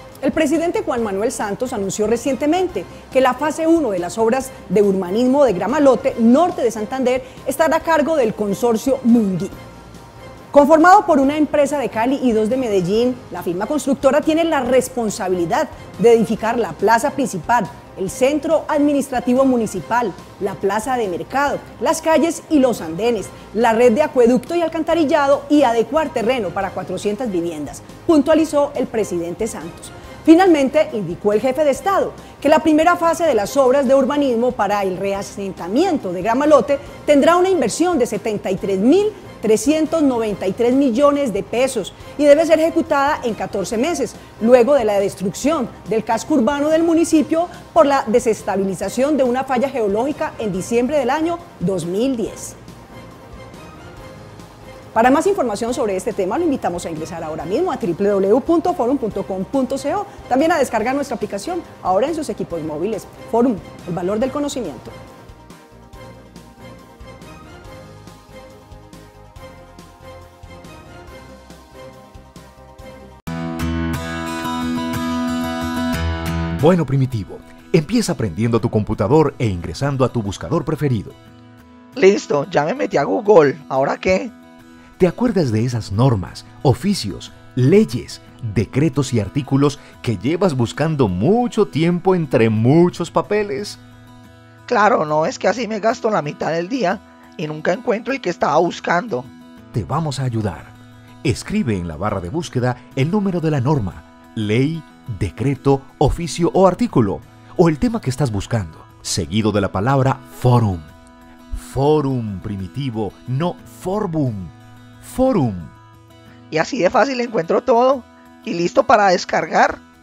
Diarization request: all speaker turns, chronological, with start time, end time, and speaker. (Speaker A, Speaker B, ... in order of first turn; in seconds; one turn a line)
Speaker A: 0.2-9.5
Speaker A: 10.5-52.6
Speaker A: 54.9-65.0
Speaker B: 76.6-81.2
Speaker C: 82.0-84.3
Speaker B: 85.0-93.8
Speaker C: 94.7-99.3
Speaker B: 99.7-110.9
Speaker B: 111.5-115.8
Speaker C: 116.5-119.8